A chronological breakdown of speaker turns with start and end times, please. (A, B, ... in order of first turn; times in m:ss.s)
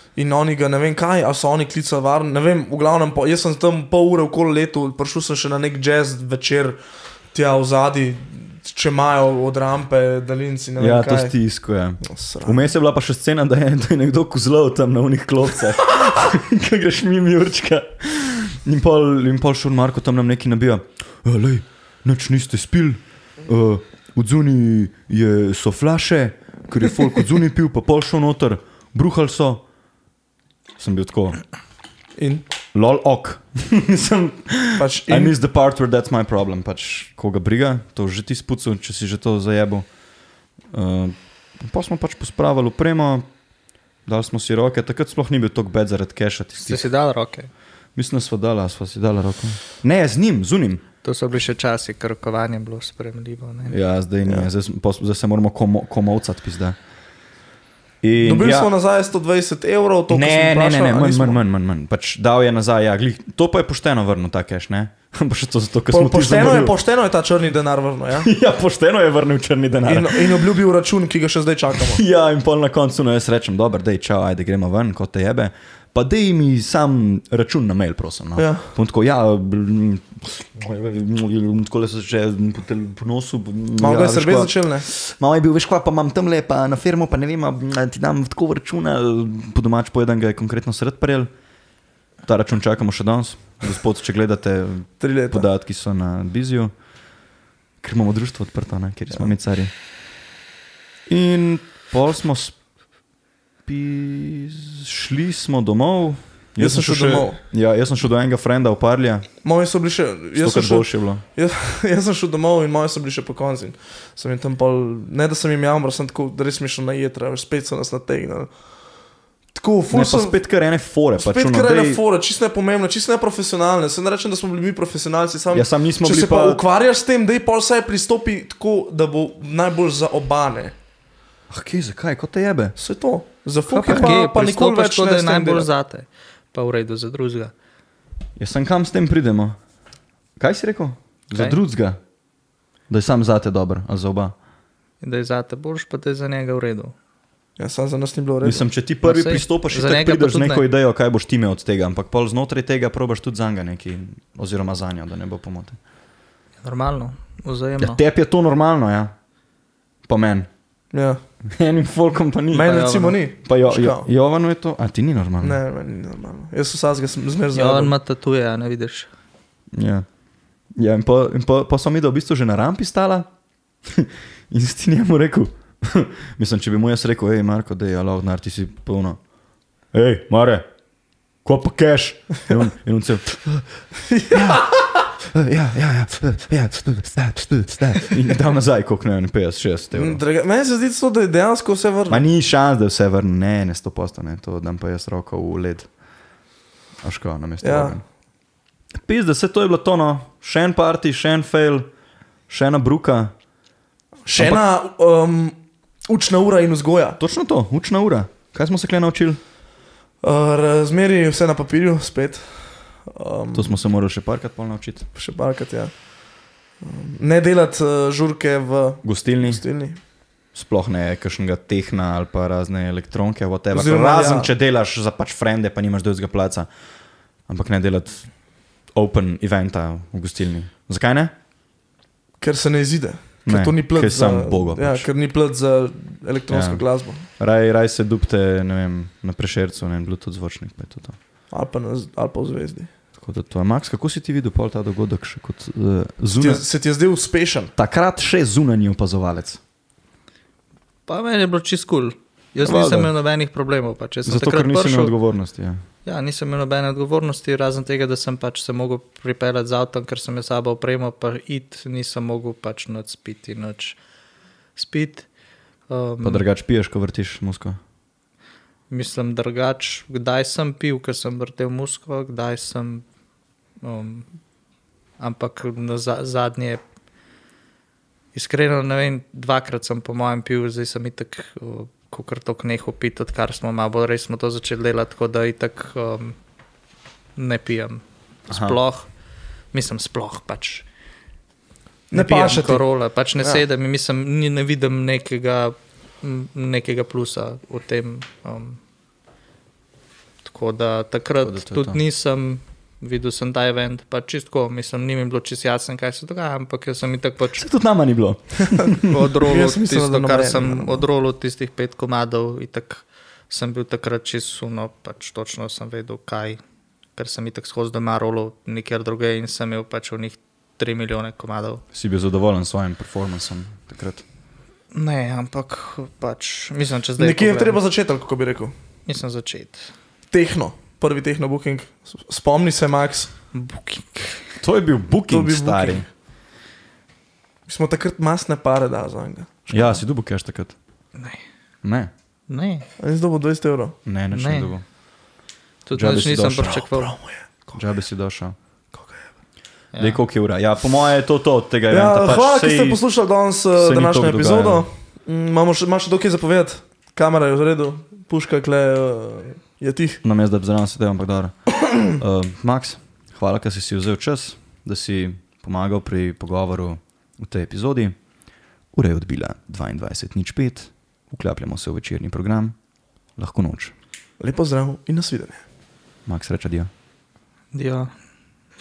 0:00.2-0:06.8 A
0:07.3-0:11.4 A
0:10.8-0:29.6 B
0:12.0-0:12.7 A
0:30.8-0:31.4 B
0:32.2-0:32.4 A
0:32.7-0:39.8 B
0:34.8-0:35.3 A
0:40.7-0:43.3 B
0:44.0-0:46.9 B
0:46.6-0:47.5 C
0:48.0-0:50.8 B
0:51.0-0:53.8 C
0:53.7-0:56.8 B
0:58.0-0:58.7 B
0:58.2-1:01.4 A
1:00.1-1:06.7 B
1:05.9-1:08.3 A
1:08.2-1:10.5 B
1:09.8-1:12.0 A
1:11.8-1:31.3 B
1:18.4-1:18.7 A
1:23.8-1:24.9 A
1:32.2-1:36.7 B
1:35.0-1:35.4 A
1:37.8-1:39.7 B
1:41.1-1:42.6 B
1:43.6-1:49.3 B
1:46.6-1:47.4 A
1:49.4-1:58.5 A
1:50.4-1:51.2 B
1:59.5-2:00.4 A
1:59.9-2:02.0 B
2:01.2-2:10.7 A
2:05.5-2:06.6 B
2:11.5-2:12.7 B
2:12.8-2:15.7 A
2:13.7-2:17.5 C
2:13.8-2:14.1 B
2:18.4-2:19.6 B
2:20.4-2:22.0 B
2:22.9-2:24.3 B
2:25.0-2:26.9 C
2:27.6-2:28.6 A
2:28.4-2:35.8 B
2:29.0-2:30.6 C
2:36.6-2:38.0 C
2:37.8-2:39.1 B
2:40.1-2:40.5 B
2:40.9-2:41.2 A
2:41.4-2:42.9 B
2:42.5-2:44.1 A
2:42.7-2:43.2 C
2:43.4-2:45.6 B
2:45.4-2:47.9 A
2:47.5-2:49.1 C
2:49.7-2:50.0 B
2:50.8-2:53.3 B
2:53.8-2:59.2 B
2:59.9-3:00.6 B
3:01.4-3:03.7 B
3:04.0-3:04.8 A
3:04.3-3:10.2 B
3:09.9-3:12.2 A
3:12.1-3:15.9 B
3:17.0-3:18.0 B
3:17.6-3:18.0 A
3:18.9-3:21.9 B
3:22.5-3:23.3 B
3:24.2-3:27.2 A
3:24.4-3:24.6 B
3:27.2-3:29.4 B
3:30.2-3:33.8 A
3:33.5-3:35.0 B
3:35.1-3:36.0 A
3:36.8-3:40.0 A
3:39.0-3:39.6 B
3:40.5-3:46.7 B
3:43.7-3:44.5 A
3:47.5-3:48.3 B
3:48.9-3:51.3 B
3:52.4-3:57.3 A
3:53.4-3:55.1 B
3:56.5-3:56.8 B
3:57.4-4:01.2 B
4:01.5-4:02.9 A
4:03.2-4:06.6 B
4:06.4-4:07.7 A
4:07.8-4:09.6 B
4:11.1-4:15.1 C
4:12.6-4:13.1 B
4:14.2-4:15.8 B
4:16.0-4:24.0 C
4:24.8-4:25.3 C
4:25.9-4:26.4 C
4:26.2-4:27.8 B
4:28.9-4:33.0 C
4:33.8-4:34.3 C
4:35.2-4:36.8 C
4:38.3-4:46.4 C
4:47.4-4:49.1 C
4:48.5-4:48.8 B
4:49.7-4:50.8 C
4:52.1-4:52.8 A
4:52.1-4:58.8 C
5:00.4-5:07.6 C
5:01.4-5:02.0 B
5:07.6-5:09.2 B
5:09.1-5:16.6 C
5:09.4-5:11.1 A
5:17.2-5:21.8 C
5:21.9-5:24.2 B
5:24.9-5:27.8 C
5:27.2-5:28.7 A
5:29.1-5:29.9 C
5:30.3-5:33.3 A
5:33.5-5:34.5 C
5:34.6-5:36.0 B
5:35.3-5:36.1 A
5:37.7-5:39.9 A
5:39.7-5:40.7 B
5:41.8-5:42.1 B
5:42.5-5:42.9 C
5:43.0-5:44.0 A
5:44.0-5:44.8 B
5:44.3-5:44.8 C
5:45.8-5:47.1 C
5:45.9-5:46.8 B
5:46.8-5:47.8 A
5:47.7-5:48.6 B
5:48.9-5:49.2 A
5:49.9-5:50.2 C
5:50.0-5:53.0 B
5:51.9-6:00.2 A
5:53.7-5:54.8 B
6:00.2-6:08.2 B
6:08.9-6:12.7 B
6:13.4-6:13.9 B
6:14.4-6:15.6 A
6:16.3-6:16.9 B
6:17.7-6:18.1 C